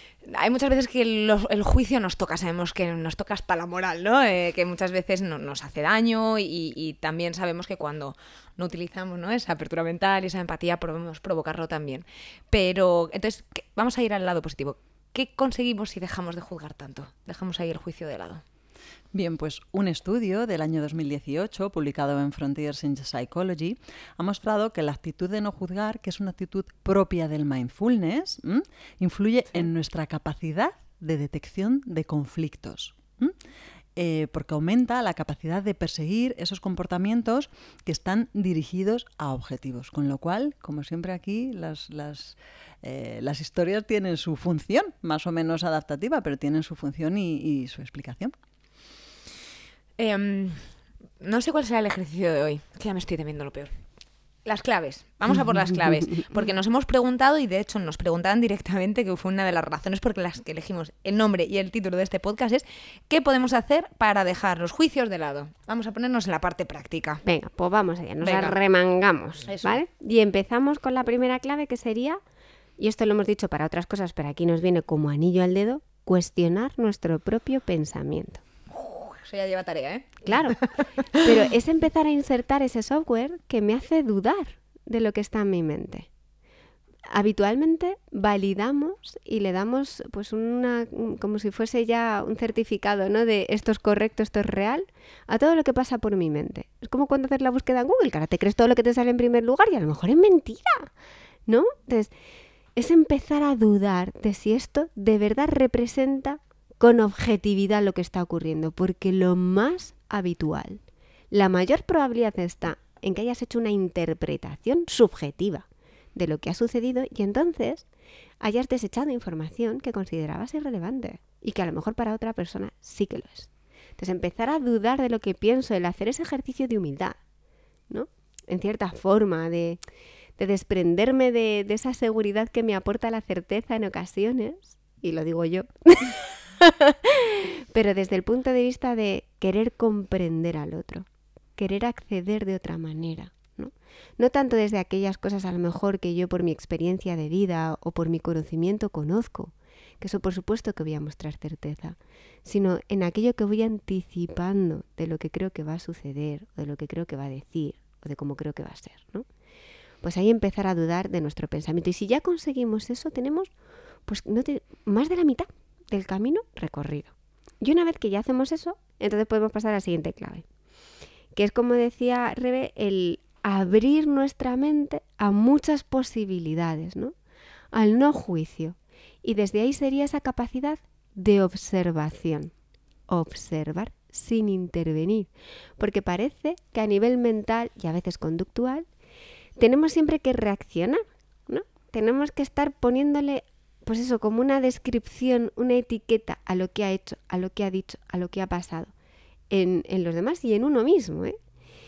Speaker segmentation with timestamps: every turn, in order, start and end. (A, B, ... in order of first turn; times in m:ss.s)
0:00.2-0:18.4 A
0:19.1-0:33.3 B
0:34.0-0:48.3 B
0:50.0-0:53.8 A
0:54.4-1:07.2 A
1:07.2-1:12.2 C
1:08.2-1:08.6 A
1:09.4-1:09.8 A
1:12.8-1:18.4 C
1:18.7-1:20.7 A
1:20.2-1:20.6 C
1:21.1-1:26.1 C
1:27.1-1:40.9 C
1:41.5-1:42.1 C
1:42.8-1:57.8 C
1:58.4-2:07.2 C
2:07.9-2:09.8 C
2:10.4-2:21.0 C
2:21.6-2:39.2 C
2:40.0-2:43.5 C
2:44.1-2:50.4 C
2:51.3-2:57.1 C
2:57.7-3:02.5 C
3:03.1-3:08.8 C
3:09.6-3:18.9 C
3:19.5-3:21.4 C